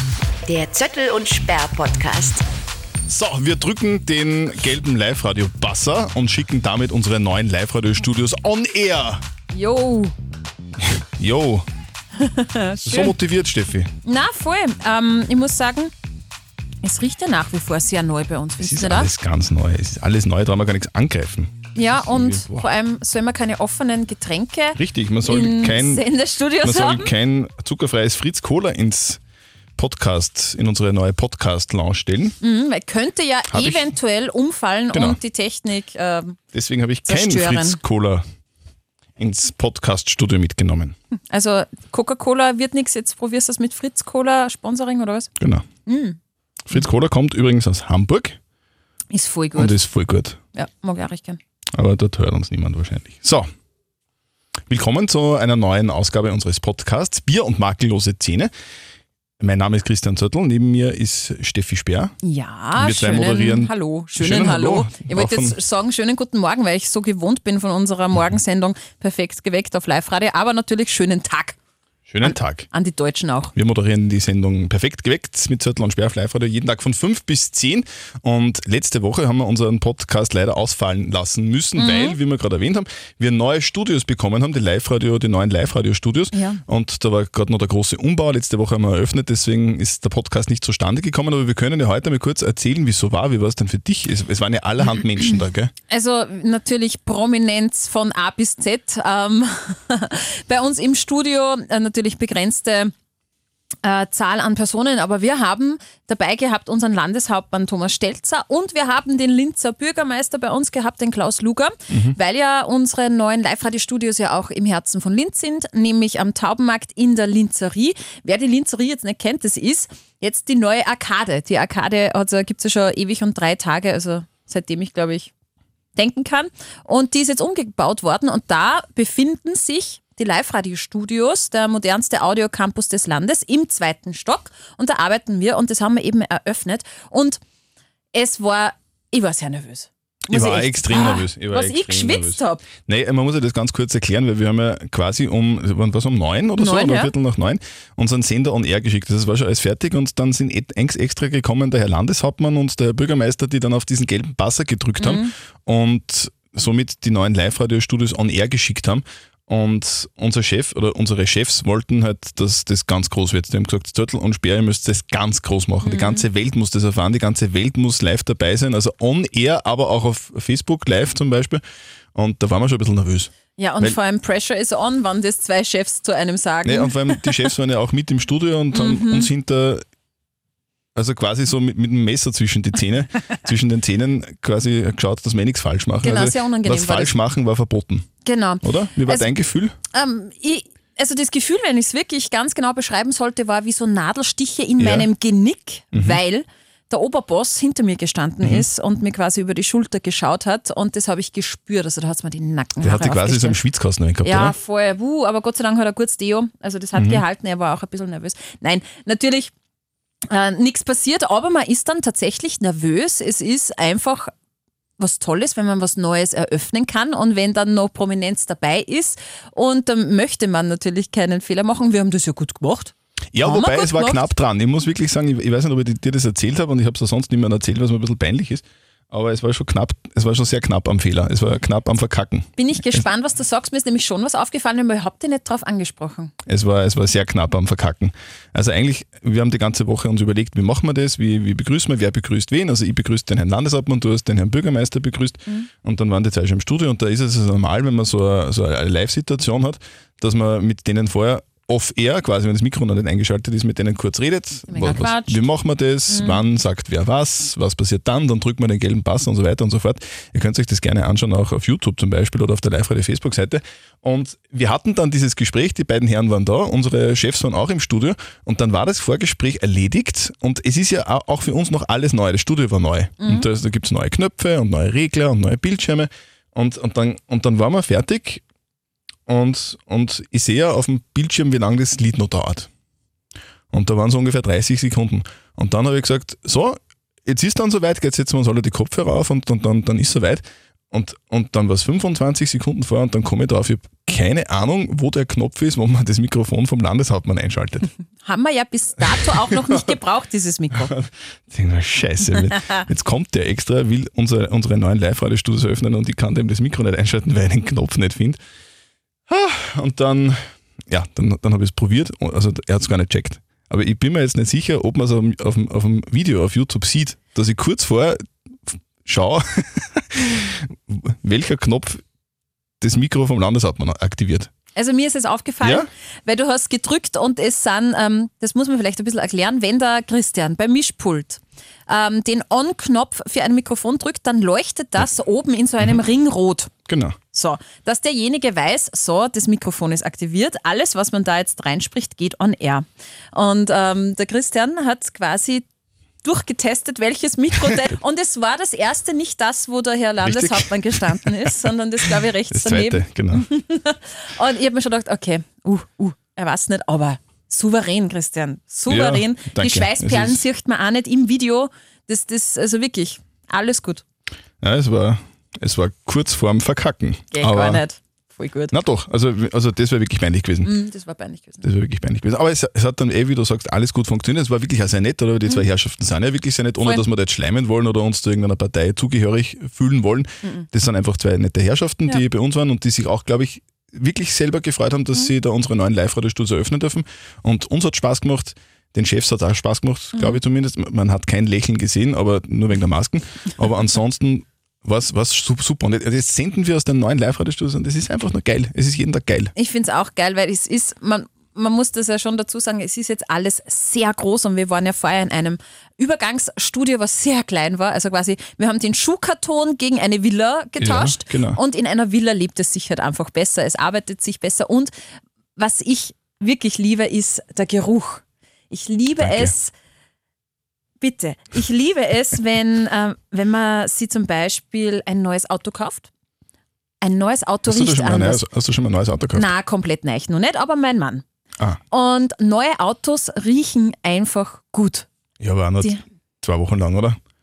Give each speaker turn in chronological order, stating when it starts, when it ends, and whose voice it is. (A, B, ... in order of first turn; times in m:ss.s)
0:00.5-0:02.4 A
0:03.1-0:09.2 B
0:09.5-0:10.1 C
0:10.8-0:11.7 B
0:12.2-0:13.1 C
0:12.8-0:13.9 B
0:14.0-0:15.9 C
0:16.8-0:19.1 C
0:18.6-0:22.6 B
0:21.7-0:27.1 C
0:24.8-0:26.0 B
0:26.6-0:29.2 B
0:29.8-0:32.4 B
0:32.4-0:36.4 C
0:33.5-0:33.9 B
0:34.9-0:35.2 B
0:36.5-0:38.2 B
0:37.0-0:37.8 C
0:39.2-0:40.9 B
0:41.3-0:45.3 C
0:45.4-0:45.6 B
0:45.8-0:46.2 C
0:46.7-0:48.4 B
0:49.1-0:49.8 C
0:49.5-0:50.4 B
0:50.5-0:51.4 C
0:51.7-0:53.5 B
0:54.7-0:58.5 B
0:59.4-1:02.1 B
1:02.2-1:11.6 C
1:02.7-1:05.6 B
1:12.1-1:12.7 B
1:12.2-1:13.5 C
1:13.5-1:35.7 B
1:21.7-1:22.2 C
1:26.3-1:26.6 C
1:35.9-1:42.9 C
1:43.8-2:05.3 C
1:51.9-1:52.2 B
2:06.0-2:17.4 C
2:18.1-2:22.6 C
2:20.3-2:51.6 B
2:26.6-2:27.1 C
2:35.0-2:35.3 C
2:45.8-2:46.2 C
2:52.1-2:54.0 B
2:53.6-2:57.5 C
2:56.6-2:59.8 B
2:58.7-2:59.3 C
3:01.0-3:08.1 B
3:06.0-3:07.1 C
3:08.2-3:09.3 C
3:08.6-3:09.7 B
3:09.9-3:23.6 C
3:14.8-3:15.1 B
3:15.9-3:16.2 B
3:22.8-3:24.5 B
3:24.2-3:29.5 C
3:27.0-3:27.2 B
3:30.3-3:34.3 C
3:35.0-3:44.3 C
3:43.3-3:53.0 B
3:52.6-3:56.3 C
3:56.4-4:38.4 B
4:14.7-4:15.4 C
4:16.1-4:16.4 C
4:33.2-4:33.5 C
4:39.3-4:42.7 B
4:43.7-4:57.9 B
4:58.2-5:00.9 C
4:59.2-5:00.0 B
5:00.7-5:08.4 B
5:02.5-5:02.8 C
5:09.3-5:22.0 B
5:22.8-5:24.5 B
5:24.7-5:36.7 C
5:25.6-5:25.9 B
5:36.9-5:37.2 B
5:37.3-5:45.6 C
5:46.2-6:04.0 C
5:50.2-5:53.5 B
5:58.9-6:00.4 B
6:04.6-6:07.8 B
6:07.3-6:08.8 C
6:08.7-6:10.7 B
6:10.6-6:11.6 C
6:11.6-6:39.5 B
6:39.5-6:54.9 C
6:50.8-6:51.6 B
6:55.6-6:59.7 C
6:59.2-6:59.5 B
7:01.0-7:06.1 C
7:07.0-7:08.4 C
7:07.7-7:09.5 B
7:09.3-7:11.2 C
7:11.9-7:15.1 C
7:15.4-7:17.2 B